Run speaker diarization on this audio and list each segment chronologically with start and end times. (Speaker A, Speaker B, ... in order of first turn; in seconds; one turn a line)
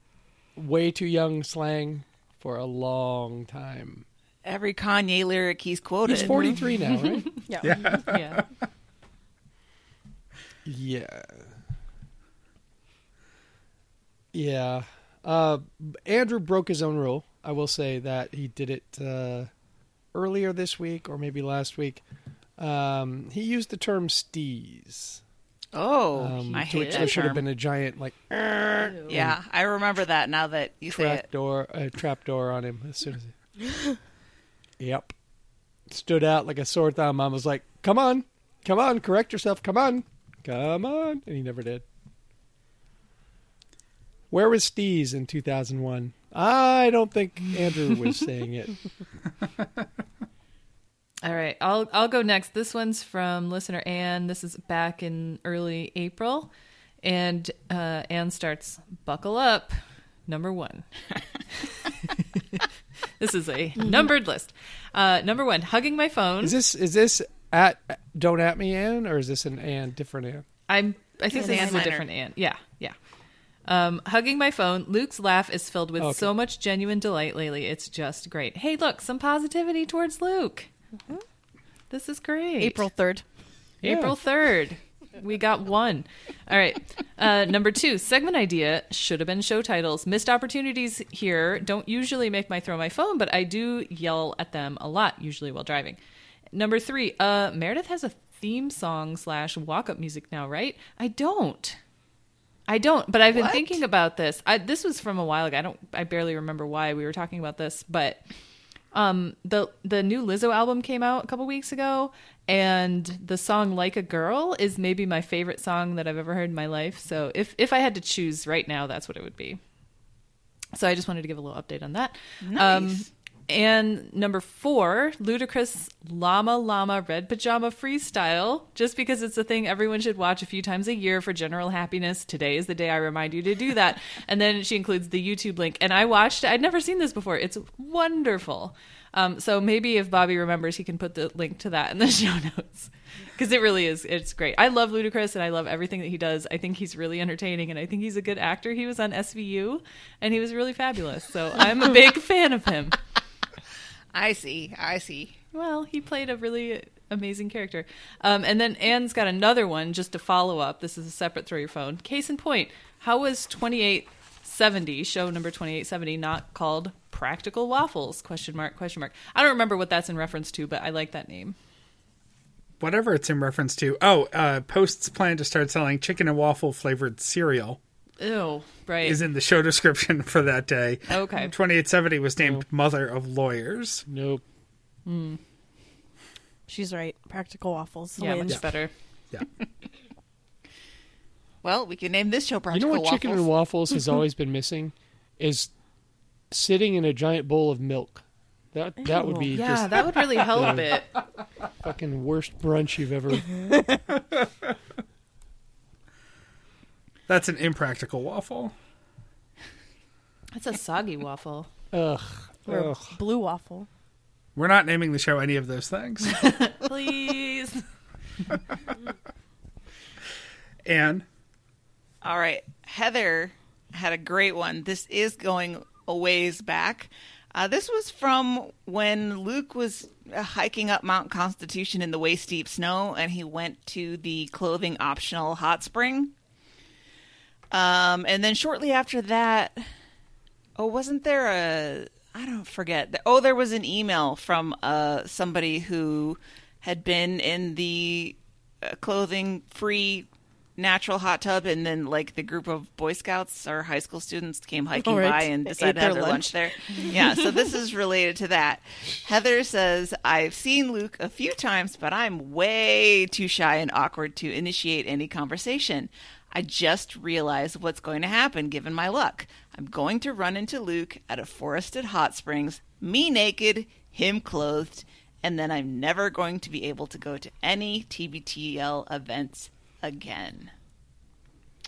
Speaker A: 0.6-4.0
Speaker B: 4.4-6.6
Speaker A: 6.1-7.3
Speaker C: 6.1-6.5
Speaker D: 6.9-7.4
Speaker C: 7.5-8.0
Speaker E: 7.6-8.5
Speaker D: 8.0-8.4
Speaker A: 10.6-11.5
Speaker A: 14.3-19.5
Speaker A: 20.1-22.0
Speaker A: 22.6-25.2
Speaker B: 25.7-27.4
Speaker A: 26.1-29.4
Speaker D: 26.5-27.2
Speaker B: 29.1-31.2
Speaker A: 30.9-33.3
Speaker A: 34.8-35.1
Speaker A: 35.9-41.8
Speaker A: 44.3-48.8
Speaker D: 51.2-60.9
Speaker D: 61.6-62.6
Speaker D: 63.2-66.5
Speaker A: 66.4-70.5
Speaker D: 70.7-73.0
Speaker B: 71.3-72.1
Speaker C: 71.3-71.9
Speaker D: 73.6-80.7
Speaker A: 76.0-76.3
Speaker D: 81.9-82.9
Speaker C: 82.6-83.2
Speaker A: 83.8-84.2
Speaker D: 83.8-96.0
Speaker D: 96.5-101.8
Speaker D: 102.7-108.2
Speaker B: 103.3-103.8
Speaker D: 108.9-119.6
Speaker D: 120.7-153.0
Speaker B: 122.4-123.1
Speaker B: 154.1-155.4
Speaker D: 155.5-171.6
Speaker E: 172.8-177.8
Speaker D: 178.2-179.2
Speaker E: 179.0-184.0
Speaker D: 181.1-181.5
Speaker A: 184.1-184.4
Speaker D: 185.1-185.4
Speaker C: 186.7-188.7
Speaker D: 188.2-188.9
Speaker B: 191.6-193.5
Speaker A: 192.7-195.7
Speaker A: 196.5-200.9
Speaker C: 199.0-199.7
Speaker D: 199.5-201.2
Speaker A: 201.8-203.6
Speaker E: 207.3-208.7
Speaker D: 210.5-211.7
Speaker A: 211.9-213.1
Speaker C: 212.7-213.9
Speaker E: 214.6-216.5
Speaker D: 216.3-217.8
Speaker E: 220.8-221.2
Speaker B: 222.2-236.3
Speaker B: 237.7-239.9
Speaker B: 240.8-280.7
Speaker C: 255.0-257.1